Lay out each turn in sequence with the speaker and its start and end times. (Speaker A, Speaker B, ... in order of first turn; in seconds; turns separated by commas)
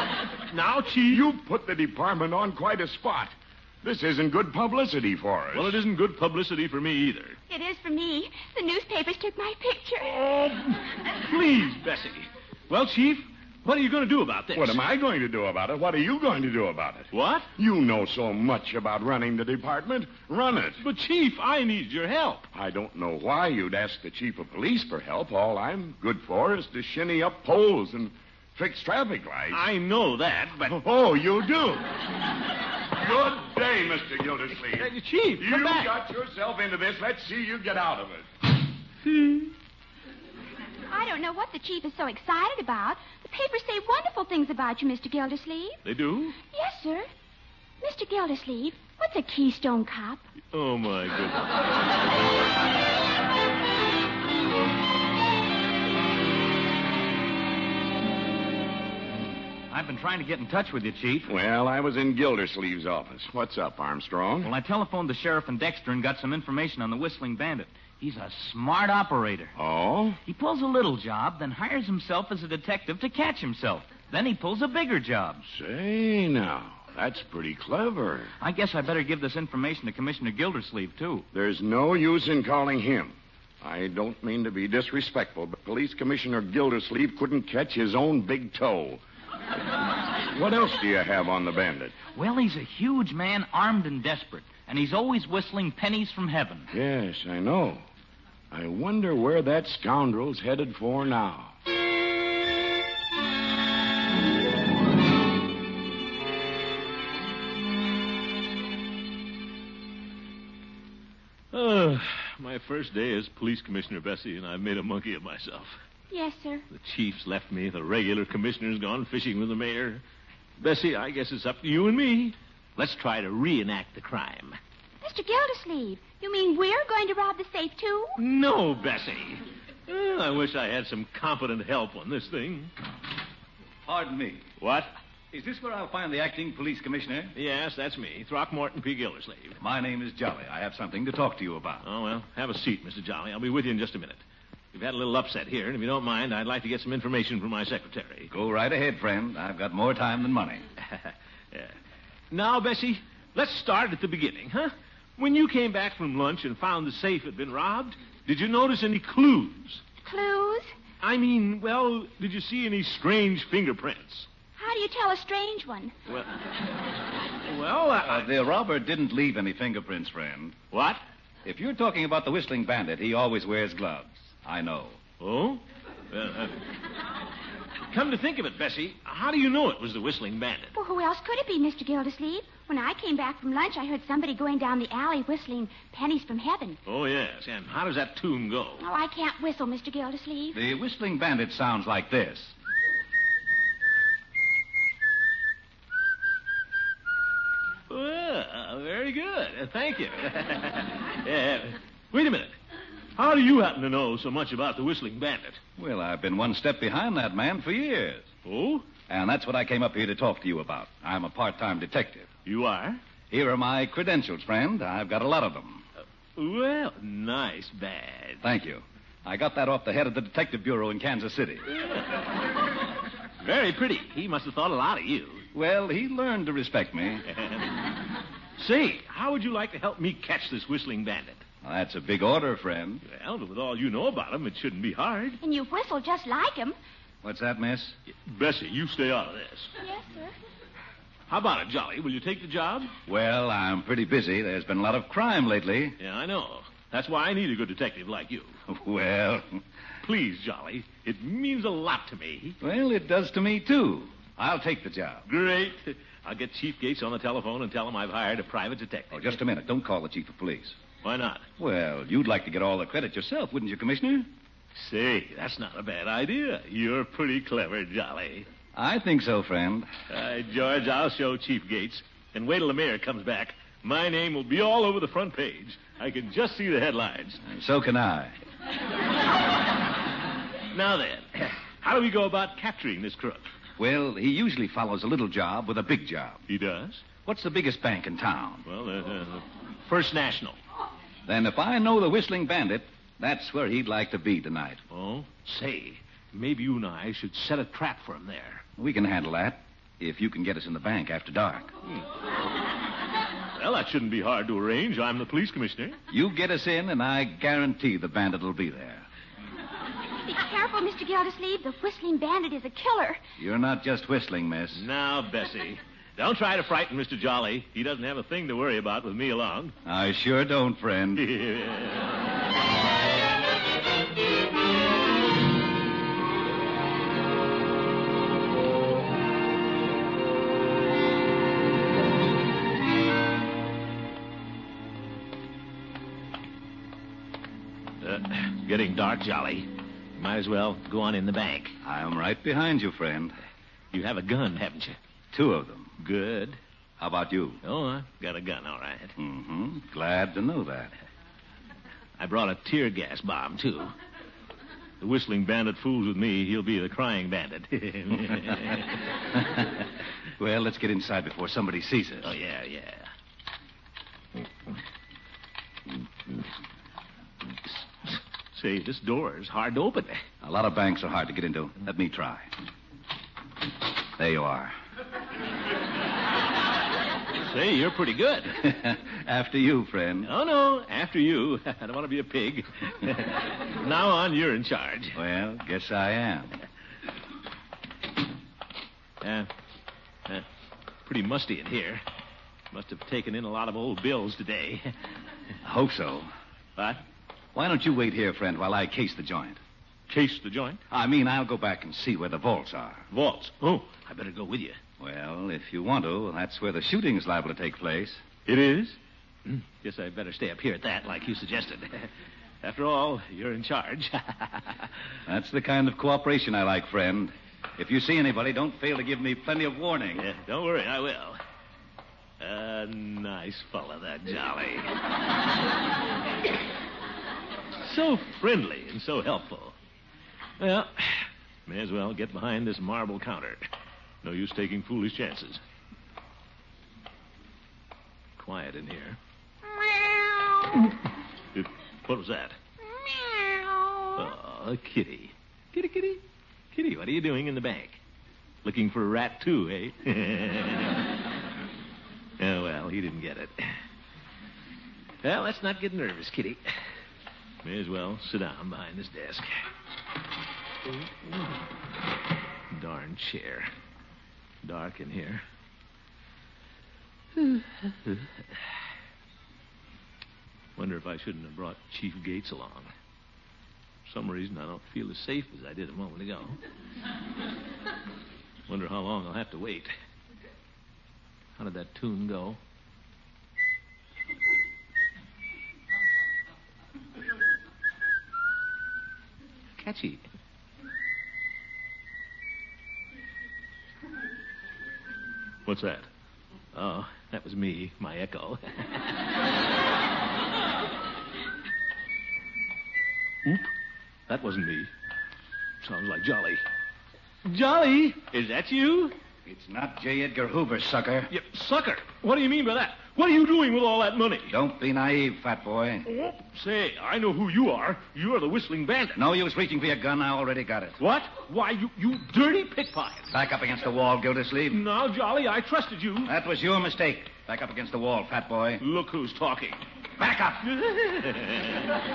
Speaker A: 0.5-1.3, Speaker B: 1.1-5.8, Speaker A: 5.5-7.4, Speaker C: 7.5-10.2, Speaker A: 10.0-14.8, Speaker B: 14.5-20.8, Speaker A: 17.1-17.5, Speaker A: 20.8-22.5, Speaker B: 22.5-29.6, Speaker A: 29.5-30.8, Speaker B: 30.6-32.0, Speaker B: 33.0-38.2, Speaker A: 34.7-35.9, Speaker A: 39.0-39.5, Speaker C: 40.9-45.8, Speaker A: 45.8-46.4, Speaker C: 46.5-47.1, Speaker C: 47.8-50.2, Speaker A: 50.5-51.4, Speaker D: 59.7-61.3, Speaker B: 61.3-64.5, Speaker D: 64.4-69.5, Speaker B: 69.5-70.2, Speaker D: 70.2-75.4, Speaker B: 75.5-78.3, Speaker D: 78.4-81.2, Speaker B: 81.3-89.0, Speaker B: 89.8-92.0, Speaker D: 92.1-96.7, Speaker B: 96.7-97.8, Speaker B: 98.5-101.5, Speaker A: 111.5-115.8, Speaker C: 116.1-116.6, Speaker A: 116.7-120.0, Speaker A: 120.6-124.6, Speaker C: 125.0-128.1, Speaker A: 128.2-132.7, Speaker E: 133.8-134.4, Speaker A: 134.6-134.9, Speaker E: 135.3-137.3, Speaker A: 137.4-139.6, Speaker E: 139.6-141.8, Speaker A: 141.8-144.2, Speaker A: 144.7-148.3, Speaker E: 148.3-150.6, Speaker A: 150.9-151.7, Speaker A: 152.3-159.8, Speaker C: 160.0-160.7, Speaker A: 161.0-164.3, Speaker C: 164.6-165.9, Speaker A: 167.4-168.3, Speaker E: 168.0-170.6, Speaker A: 170.7-171.0, Speaker E: 171.4-175.0, Speaker A: 175.2-176.6, Speaker A: 177.9-180.7, Speaker C: 180.7-186.8, Speaker A: 186.9-188.8, Speaker C: 188.8-190.6, Speaker E: 190.5-192.5, Speaker A: 197.9-202.6, Speaker A: 203.2-205.6, Speaker E: 205.8-208.3, Speaker A: 208.4-208.8, Speaker E: 209.1-212.3, Speaker A: 212.4-213.0, Speaker E: 213.3-215.8, Speaker A: 216.4-218.4, Speaker E: 218.4-221.7, Speaker A: 221.8-222.1, Speaker A: 223.4-225.4, Speaker E: 225.5-227.2, Speaker A: 227.3-227.7, Speaker A: 228.6-231.4, Speaker E: 231.6-233.0, Speaker A: 233.1-235.4, Speaker C: 235.4-236.8, Speaker E: 237.2-238.0, Speaker A: 238.2-239.7, Speaker C: 239.8-240.3, Speaker A: 241.3-242.9, Speaker E: 243.1-246.0, Speaker A: 246.0-248.5, Speaker E: 248.7-249.6, Speaker A: 250.0-252.6, Speaker E: 252.6-255.2, Speaker A: 255.3-259.4, Speaker E: 259.1-260.8, Speaker A: 261.0-261.4, Speaker E: 261.6-264.3, Speaker A: 264.7-268.5, Speaker E: 268.7-269.9, Speaker A: 270.1-277.4, Speaker E: 277.4-278.4, Speaker A: 280.7-283.5, Speaker E: 283.8-286.4, Speaker A: 286.5-287.0, Speaker E: 287.2-288.6, Speaker A: 288.6-290.6, Speaker E: 291.2-294.8, Speaker A: 294.9-298.6, Speaker E: 298.8-301.7, Speaker A: 303.6-305.9, Speaker E: 306.1-309.1, Speaker C: 310.2-313.2, Speaker E: 313.4-314.8, Speaker A: 314.7-319.7, Speaker E: 319.9-321.3, Speaker A: 321.2-322.3, Speaker A: 338.0-341.7, Speaker E: 341.8-343.4, Speaker A: 343.9-345.0, Speaker E: 345.3-345.9, Speaker A: 346.0-346.6, Speaker E: 347.0-347.6, Speaker A: 347.6-349.1, Speaker E: 349.2-350.9, Speaker A: 352.2-353.9, Speaker A: 355.0-359.0, Speaker E: 359.5-359.8, Speaker E: 360.4-362.3, Speaker A: 362.2-363.1, Speaker A: 368.1-370.2, Speaker E: 370.4-372.5, Speaker E: 374.2-374.8, Speaker A: 377.4-378.7, Speaker E: 378.6-380.3, Speaker A: 380.2-385.2, Speaker E: 385.1-386.6, Speaker A: 389.2-389.5, Speaker A: 391.1-392.0, Speaker A: 392.7-394.9, Speaker E: 395.6-396.3, Speaker A: 396.8-397.0, Speaker E: 397.5-399.6, Speaker A: 400.1-400.8, Speaker E: 400.9-403.1, Speaker A: 403.1-404.8, Speaker E: 405.0-408.2, Speaker A: 408.4-412.1, Speaker A: 412.6-414.9, Speaker E: 415.2-420.3, Speaker A: 420.1-421.4, Speaker A: 422.4-424.9, Speaker A: 427.8-429.7, Speaker A: 430.6-433.6, Speaker A: 434.2-435.6, Speaker A: 438.4-439.2, Speaker A: 441.5-442.6, Speaker A: 444.1-446.2, Speaker A: 446.7-448.0, Speaker A: 448.6-451.0, Speaker A: 452.4-453.8, Speaker A: 455.2-456.8, Speaker A: 457.6-459.5, Speaker A: 462.7-463.7, Speaker A: 464.6-465.4, Speaker A: 467.4-468.3, Speaker A: 470.8-472.9, Speaker A: 474.1-476.6, Speaker A: 478.7-479.9, Speaker A: 481.6-482.6, Speaker A: 489.8-490.2, Speaker A: 495.6-496.1, Speaker A: 496.7-499.1, Speaker A: 504.3-504.9, Speaker A: 505.8-506.6, Speaker A: 507.4-509.1, Speaker E: 509.4-511.3, Speaker A: 511.3-514.5, Speaker E: 514.5-516.1, Speaker A: 516.1-519.2, Speaker E: 519.1-521.0, Speaker A: 521.0-523.3, Speaker E: 523.3-524.8, Speaker A: 524.7-526.3, Speaker E: 526.2-528.8, Speaker A: 528.8-529.8, Speaker E: 530.2-530.6, Speaker A: 530.6-532.0